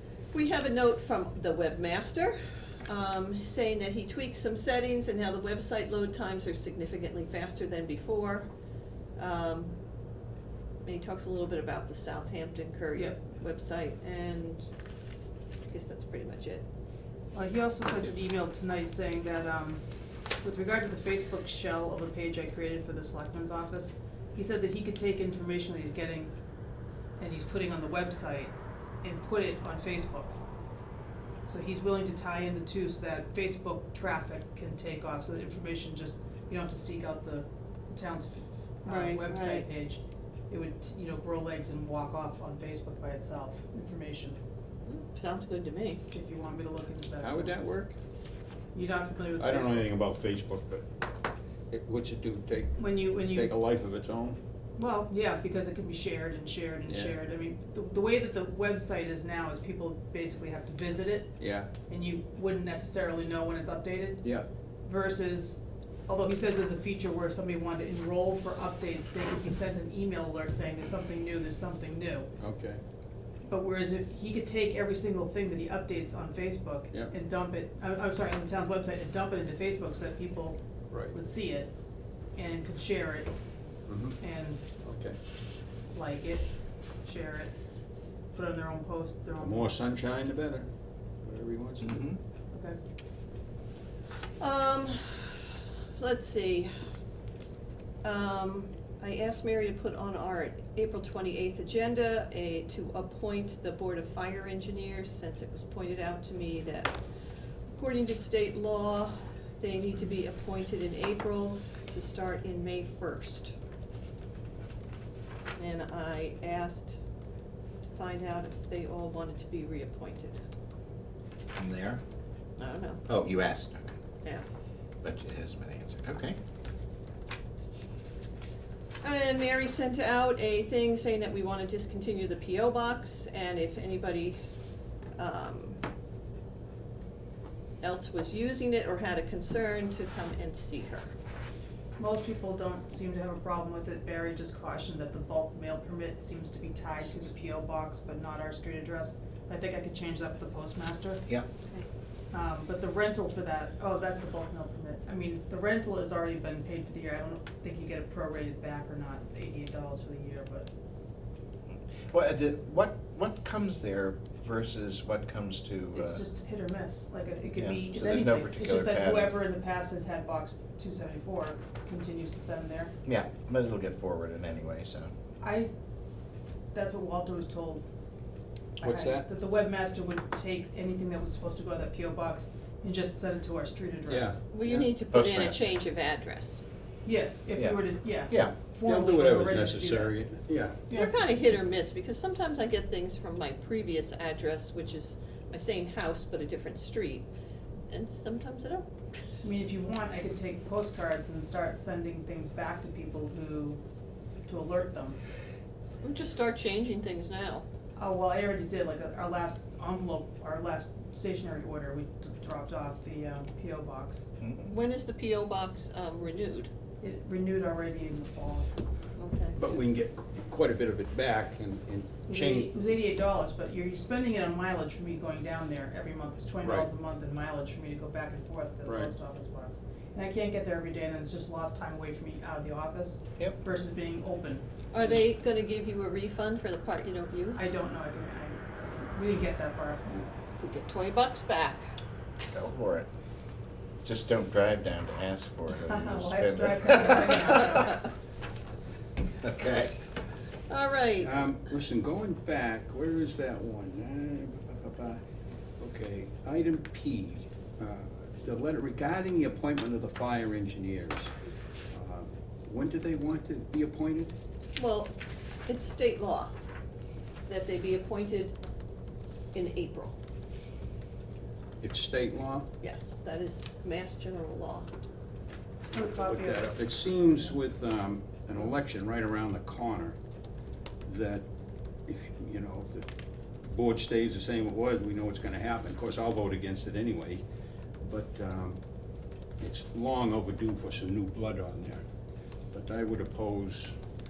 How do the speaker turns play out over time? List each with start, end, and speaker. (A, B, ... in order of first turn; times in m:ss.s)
0:00.3-0:08.5 A
0:09.2-0:09.7 A
0:10.8-0:14.6 A
0:15.7-0:16.6 A
0:17.3-0:19.8 B
0:20.4-0:26.3 B
0:27.2-0:28.5 B
0:29.0-0:30.3 B
0:31.5-0:44.4 B
0:38.8-0:39.7 A
0:44.8-0:46.0 A
0:46.1-0:47.5 B
0:47.2-0:48.0 C
0:48.7-0:49.9 B
0:49.4-0:50.8 C
0:51.7-0:54.4 C
0:52.8-0:53.6 B
0:54.8-1:01.4 B
0:56.9-0:57.2 C
1:01.4-1:01.7 C
1:01.9-1:04.3 B
1:04.2-1:04.5 C
1:04.8-1:12.3 B
1:12.4-1:12.8 C
1:13.5-1:21.7 B
1:20.9-1:21.2 C
1:22.3-1:23.3 B
1:23.9-1:24.2 C
1:24.2-1:24.6 B
1:24.8-1:25.2 C
1:25.9-1:26.5 B
1:27.0-1:27.5 B
1:28.3-1:29.8 B
1:29.4-1:30.7 C
1:31.2-1:32.0 C
1:31.8-1:32.2 D
1:32.5-1:32.8 B
1:34.4-1:36.7 A
1:38.0-1:47.0 A
1:47.7-1:53.5 A
1:55.6-1:57.0 A
1:57.9-2:00.4 A
2:01.6-2:02.0 D
2:02.6-2:03.0 A
2:03.0-2:04.0 D
2:05.0-2:06.4 D
2:09.0-2:14.4 A
2:15.2-2:15.8 A
2:17.8-2:21.1 A
2:22.0-2:31.3 B
2:32.3-2:40.7 B
2:41.7-2:46.2 D
2:45.9-2:52.9 B
2:47.6-2:49.4 D
2:53.0-2:55.1 D
2:55.4-2:55.7 B
2:56.7-2:57.8 B
2:58.8-3:04.4 B
2:58.8-2:59.3 C
3:04.1-3:04.9 C
3:04.5-3:06.6 A
3:05.1-3:05.6 D
3:07.0-3:10.2 B
3:07.5-3:08.6 D
3:08.8-3:10.8 C
3:10.9-3:11.2 D
3:10.9-3:17.3 A
3:17.9-3:18.9 A
3:19.4-3:23.8 B
3:24.5-3:25.2 B
3:26.0-3:27.6 A
3:28.0-3:34.2 B
3:34.4-3:34.7 D
3:34.7-3:36.7 A
3:37.0-3:38.7 B
3:39.2-3:39.6 A
3:39.6-3:42.7 C
3:42.3-3:54.6 B
3:46.6-3:46.9 C
3:48.8-3:49.1 C
3:54.9-3:57.6 A
3:57.6-4:00.3 B
4:00.6-4:01.8 A
4:02.5-4:03.1 D
4:04.0-4:07.8 D
4:05.8-4:08.1 B
4:09.4-4:09.9 D
4:10.7-4:11.3 A
4:11.2-4:15.2 C
4:15.8-4:21.3 C
4:21.9-4:24.3 C
4:24.8-4:25.1 A
4:25.7-4:26.5 A
4:27.5-4:28.5 A
4:29.5-4:30.2 A
4:31.8-4:32.7 C
4:32.8-4:34.9 A
4:35.9-4:36.8 B
4:36.0-4:40.2 C
4:41.1-4:41.4 C
4:42.1-4:43.1 C
4:43.6-4:47.4 C
4:48.0-4:48.8 C
4:49.6-4:52.0 C
4:52.7-4:53.9 C